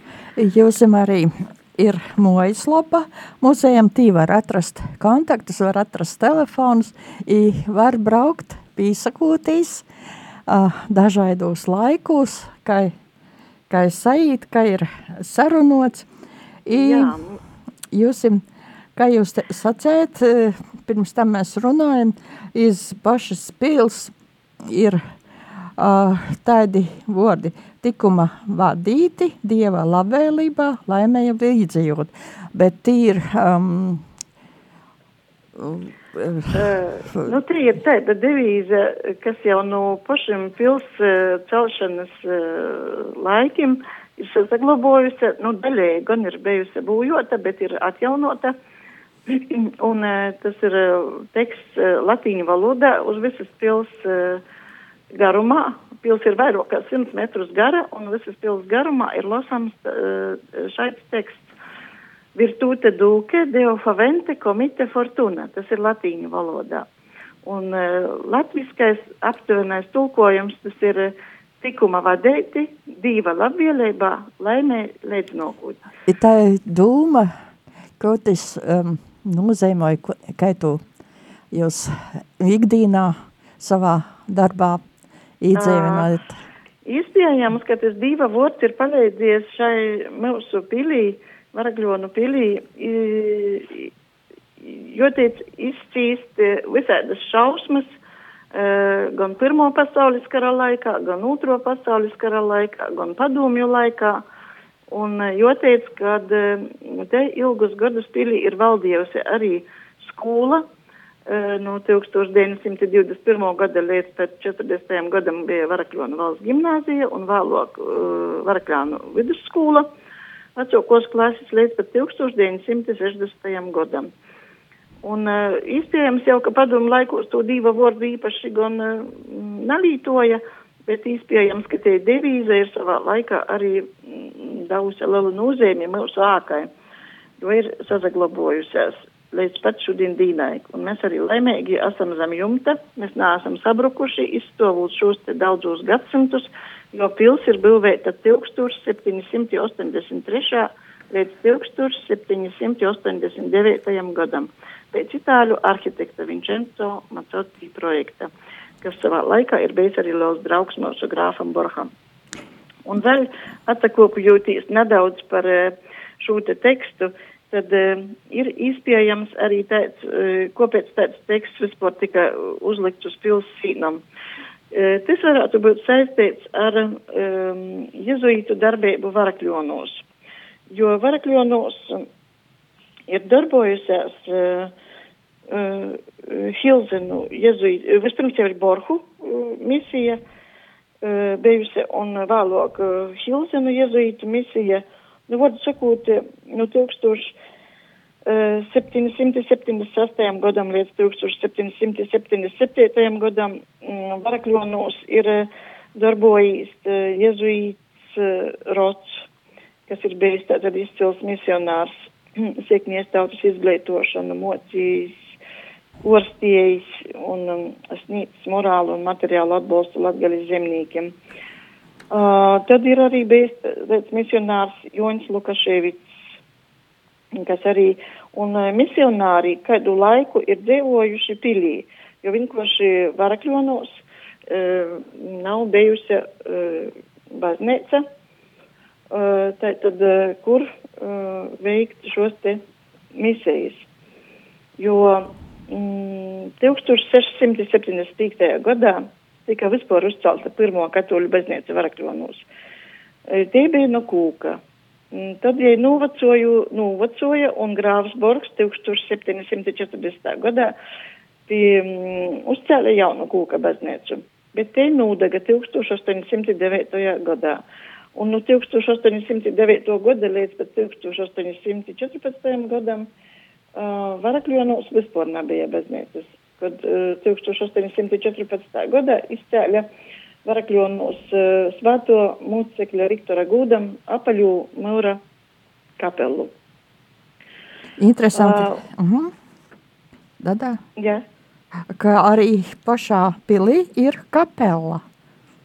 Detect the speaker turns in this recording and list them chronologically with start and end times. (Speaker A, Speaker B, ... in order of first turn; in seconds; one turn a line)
Speaker A: 0.4-9.9
Speaker A: 10.5-12.9
Speaker A: 13.7-16.1
Speaker A: 16.6-17.2
Speaker B: 16.7-17.4
Speaker A: 17.9-18.4
Speaker A: 19.0-24.1
Speaker A: 24.6-25.0
Speaker A: 25.8-34.0
Speaker A: 35.6-37.3
Speaker B: 36.5-48.5
Speaker B: 49.3-54.4
Speaker B: 55.1-61.5
Speaker B: 62.4-66.9
Speaker B: 67.4-75.8
Speaker A: 76.1-77.3
Speaker A: 78.0-80.8
Speaker A: 81.5-84.8
Speaker A: 85.4-86.4
Speaker B: 85.6-86.1
Speaker B: 86.8-93.9
Speaker B: 94.6-98.0
Speaker B: 98.5-104.2
Speaker B: 104.9-110.7
Speaker B: 111.3-119.9
Speaker B: 120.6-124.1
Speaker B: 125.0-136.7
Speaker B: 137.4-158.3
Speaker B: 158.8-161.9
Speaker B: 162.9-174.0
Speaker B: 174.7-180.0
Speaker B: 180.7-182.1
Speaker B: 183.1-184.7
Speaker B: 185.5-190.2
Speaker B: 191.0-197.3
Speaker B: 198.3-209.3
Speaker B: 209.9-215.3
Speaker B: 216.0-221.2
Speaker B: 222.1-226.1
Speaker B: 227.4-238.0
Speaker B: 239.1-242.6
Speaker B: 243.2-243.9
Speaker B: 244.8-252.5
Speaker B: 253.3-254.6
Speaker B: 255.1-260.7
Speaker B: 261.5-267.6
Speaker B: 268.1-273.1
Speaker B: 273.8-279.9
Speaker B: 280.5-285.2
Speaker B: 286.0-286.5
Speaker A: 288.0-289.3
Speaker B: 288.3-288.8
Speaker A: 290.4-290.8
Speaker B: 291.0-291.2
Speaker A: 291.9-295.0